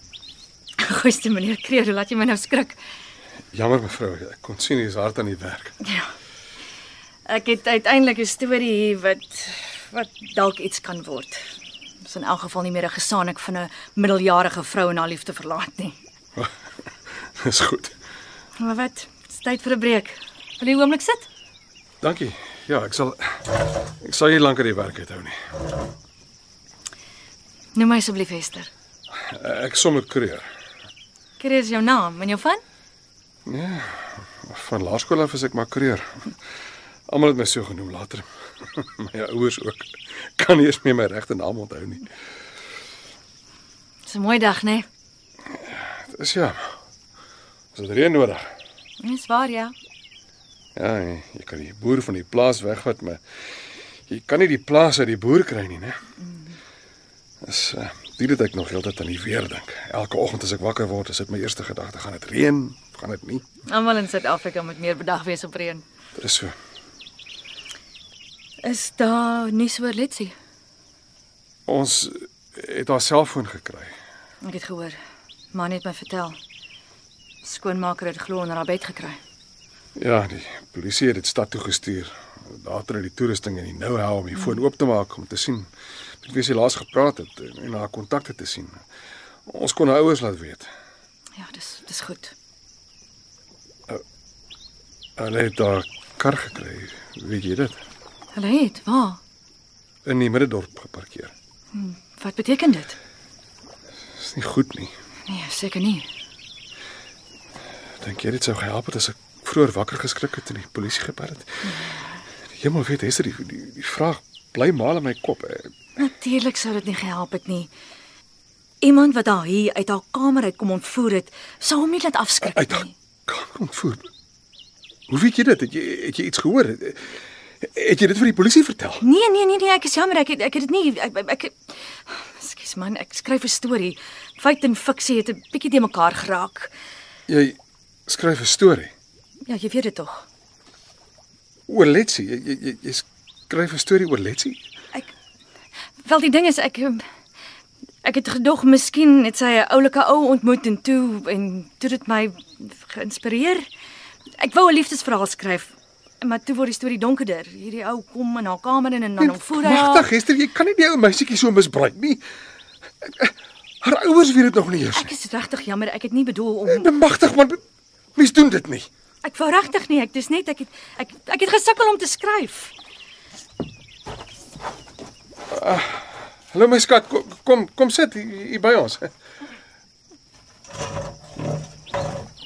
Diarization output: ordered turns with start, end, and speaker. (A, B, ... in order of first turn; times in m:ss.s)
0:00.8-0:02.8 A
0:03.5-0:05.8 B
0:07.3-0:11.4 A
0:12.0-0:16.0 A
0:17.4-0:17.9 B
0:18.6-0:21.3 A
0:22.0-0:25.4 B
0:27.8-0:28.7 A
0:29.2-0:30.5 B
0:31.4-0:32.6 A
0:33.5-0:36.3 B
0:37.1-0:42.1 B
0:44.1-0:44.9 A
0:45.5-0:46.7 B
0:47.7-0:48.5 B
0:49.0-0:49.7 A
0:50.8-0:53.2 B
0:54.1-0:56.0 B
0:57.4-1:03.4 B
1:03.7-1:05.8 A
1:06.2-1:06.6 B
1:08.6-1:10.3 A
1:11.7-1:13.9 B
1:14.4-1:15.0 A
1:15.5-1:16.4 A
1:17.4-1:19.2 A
1:20.0-1:25.7 B
1:26.2-1:28.8 B
1:29.5-1:30.7 B
1:31.4-1:32.3 A
1:35.2-1:37.8 B
1:38.4-1:39.2 A
1:40.0-1:41.3 B
1:41.7-1:43.0 A
1:44.2-1:44.9 B
1:45.3-1:46.1 A
1:48.0-1:51.5 B
1:51.6-1:52.2 A
1:52.6-1:55.7 B
1:56.0-1:57.7 A
1:58.8-2:02.9 A
2:02.4-2:04.1 B
2:05.1-2:09.0 B
2:09.0-2:11.6 A
2:12.1-2:16.7 A
2:17.3-2:17.6 B
2:18.1-2:18.9 B
2:19.5-2:20.2 A
2:21.7-2:24.6 B
2:26.0-2:27.0 A
2:28.0-2:33.7 A
2:34.4-2:40.1 A
2:39.2-2:42.2 B
2:43.0-2:45.1 B
2:44.9-2:46.9 A
2:46.7-2:47.6 B
2:48.2-2:48.9 B
2:49.2-2:52.7 A
2:55.5-2:59.1 B